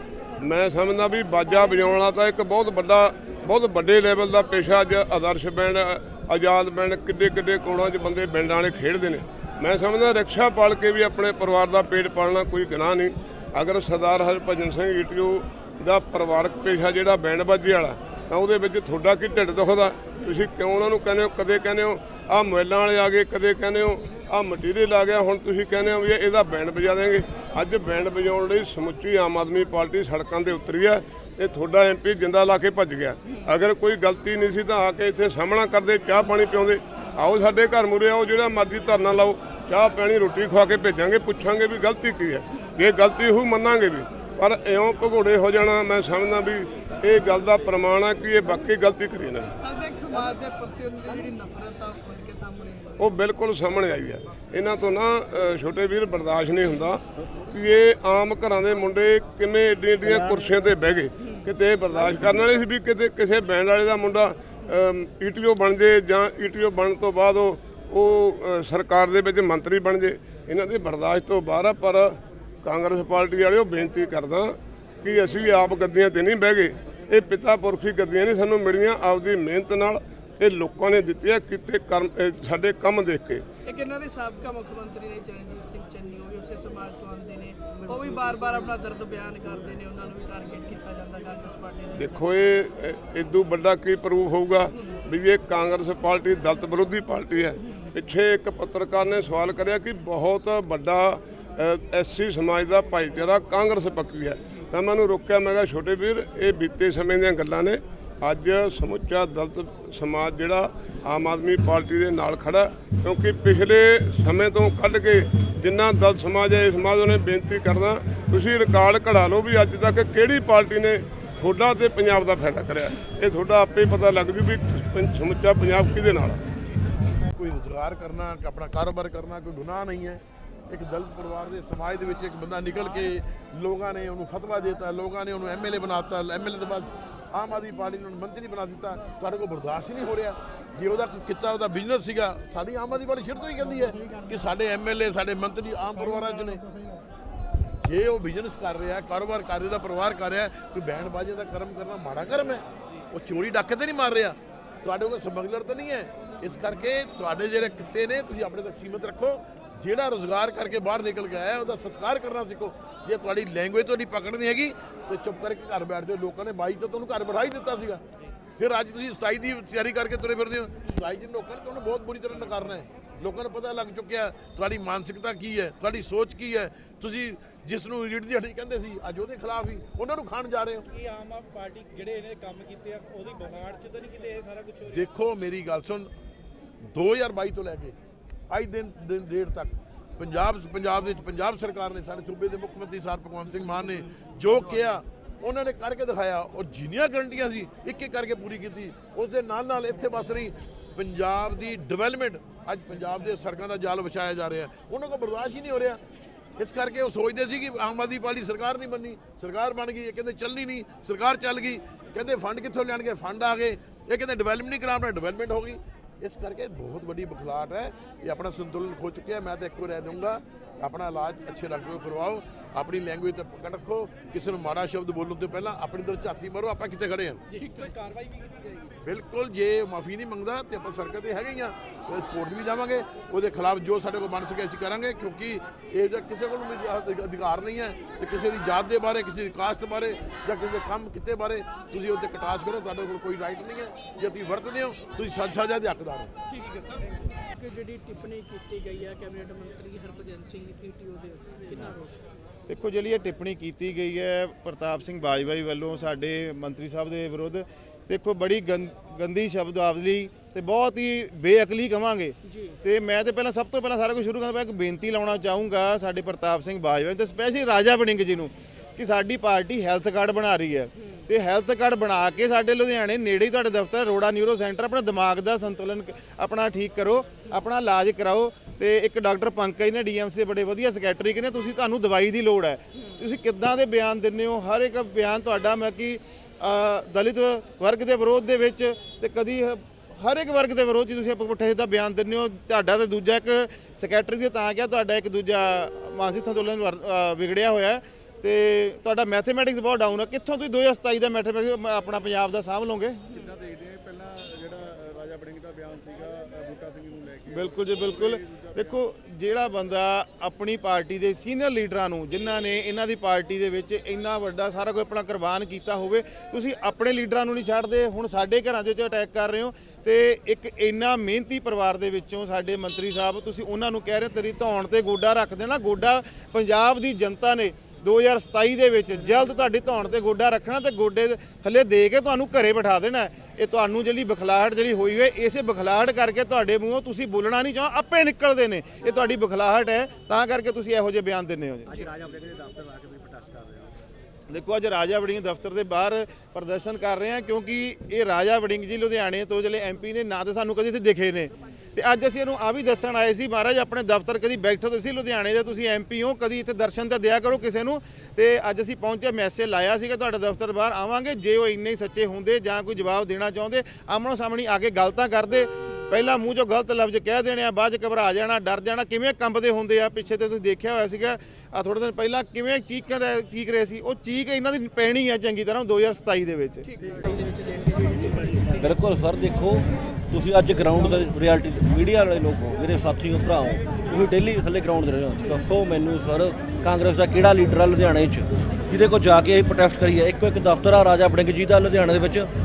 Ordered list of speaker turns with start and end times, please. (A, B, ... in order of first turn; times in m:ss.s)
0:00.4-0:49.5 A
0:49.6-0:53.1 B
0:53.0-1:23.4 A
1:23.6-1:32.2 B
1:32.0-2:06.4 A
2:07.2-2:26.7 C
2:27.8-2:48.0 C
2:48.6-3:00.9 C
3:00.9-3:05.1 D
3:04.9-3:06.1 C
3:06.8-3:07.9 C
3:08.5-3:26.0 C
3:26.6-3:47.4 C
3:47.5-3:48.9 D
3:47.5-3:47.9 B
3:49.0-4:06.3 C
4:06.6-4:07.3 D
4:07.4-4:12.2 B
4:12.7-5:03.3 E
4:22.4-4:22.8 B
5:03.4-5:08.7 D
5:07.5-5:42.1 E
5:42.2-5:43.9 D
5:44.5-6:16.8 E
6:16.8-6:18.9 B
6:18.8-6:32.5 F